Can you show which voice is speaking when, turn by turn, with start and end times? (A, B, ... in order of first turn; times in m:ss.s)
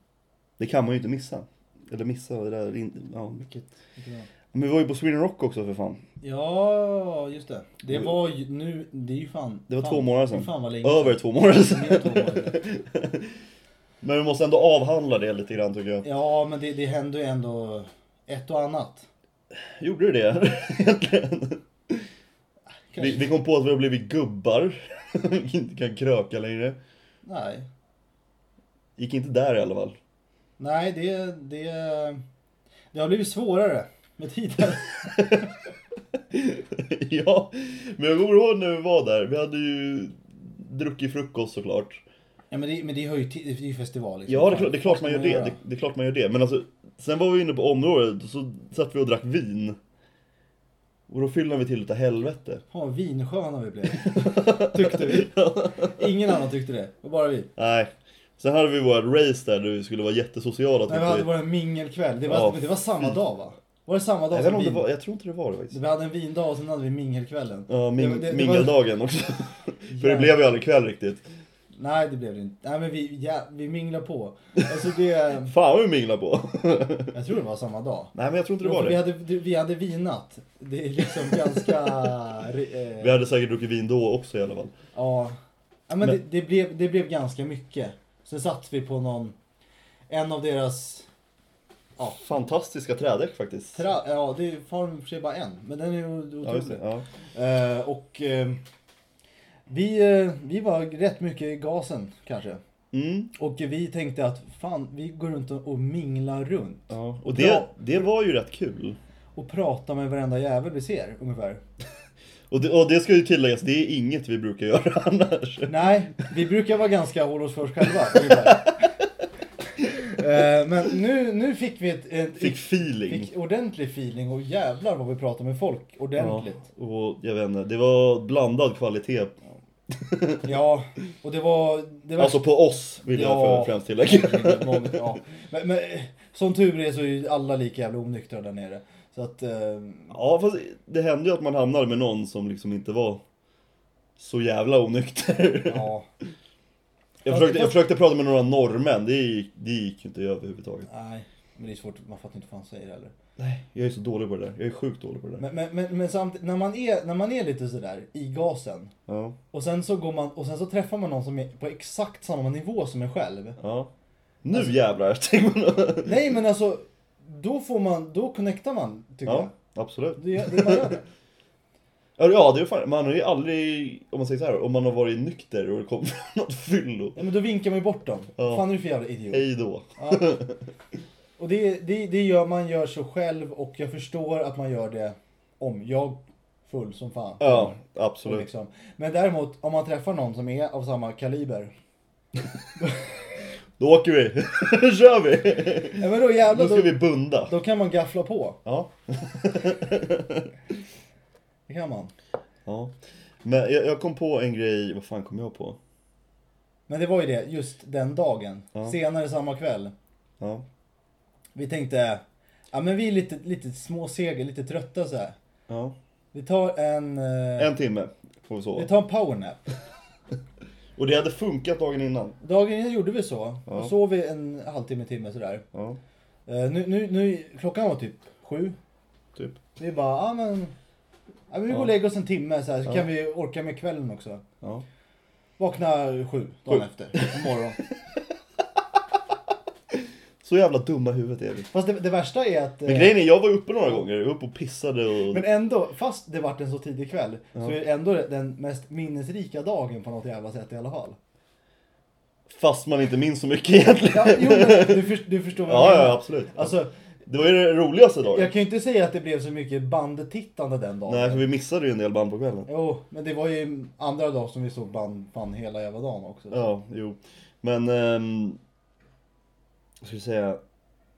0:00.6-0:03.4 A
0:03.4-0:04.3 B
0:04.5-0:06.0 A
0:06.2-0:12.6 B
0:09.7-0:13.4 A
0:14.0-0:16.0 A
0:16.0-0:19.1 B
0:19.8-0:22.1 A
0:22.9-0:23.3 B
0:23.0-0:26.8 A
0:27.2-0:27.7 B
0:29.0-0:30.0 A
0:30.6-0:32.2 B
0:32.9-0:35.5 B
0:36.3-0:42.0 A
0:42.5-0:45.6 B
0:44.3-0:49.8 A
0:51.1-0:52.6 A
0:52.7-0:57.5 B
0:54.0-0:56.0 A
0:57.6-1:01.3 A
1:00.9-1:04.9 B
1:02.3-1:03.1 A
1:04.3-1:05.8 A
1:05.7-1:08.8 B
1:07.7-1:11.2 A
1:09.9-1:10.4 B
1:11.7-1:15.5 B
1:15.4-1:17.1 A
1:17.1-1:23.2 B
1:18.1-1:19.0 A
1:23.0-1:24.7 A
1:24.9-1:25.4 B
1:25.9-1:29.4 B
1:30.1-1:31.0 B
1:32.0-1:33.8 A
1:33.7-1:36.8 B
1:36.4-1:37.0 A
1:37.3-1:38.6 B
1:39.7-1:42.6 B
1:42.9-1:43.3 A
1:43.3-1:47.7 B
1:46.9-1:49.0 A
1:49.3-1:51.6 B
1:52.5-1:55.9 A
1:55.7-1:58.8 B
1:58.1-1:58.5 A
1:59.8-2:06.6 B
2:02.4-2:03.3 A
2:06.2-2:09.4 A
2:09.9-2:10.5 A
2:10.4-2:12.5 B
2:12.2-2:15.1 A
2:13.0-2:20.1 B
2:20.1-2:23.2 A
2:24.2-2:25.9 A
2:25.6-2:26.0 B
2:27.2-2:30.9 A
2:27.2-2:27.8 B
2:30.9-2:33.1 B
2:33.4-2:35.4 A
2:35.4-2:38.9 B
2:39.1-2:39.4 A
2:39.5-2:43.6 B
2:43.6-2:43.9 A
2:44.4-2:46.1 A
2:46.0-2:49.5 B
2:49.2-2:51.0 A
2:50.2-2:51.0 B
2:52.2-2:57.2 A
2:57.2-3:00.4 B
2:58.4-2:58.7 A
2:59.3-3:00.6 A
3:01.4-3:11.7 B
3:07.4-3:08.4 A
3:13.8-3:17.5 A
3:16.0-3:18.6 B
3:18.6-3:20.5 A
3:21.7-3:22.1 B
3:22.6-3:25.8 A
3:26.9-3:29.9 B
3:30.4-3:30.6 A
3:31.5-3:35.4 B
3:35.7-3:36.0 A
3:36.3-3:37.7 B
3:37.6-3:38.9 A
3:38.8-3:39.6 B
3:41.0-3:42.4 A
3:42.4-3:45.6 B
3:43.7-3:43.9 A
3:45.7-3:46.0 A
3:46.5-3:48.8 B
3:49.8-3:50.7 B
3:51.5-3:54.4 B
3:55.6-3:57.8 B
4:00.4-4:01.7 A
4:01.7-4:03.2 B
4:02.8-4:05.4 A
4:05.3-4:11.2 B
4:12.5-4:18.5 A
4:14.1-4:16.9 B
4:18.2-4:21.4 B
4:21.1-4:22.7 A
4:22.7-4:26.7 B
4:26.5-4:28.6 A
4:30.0-4:30.6 A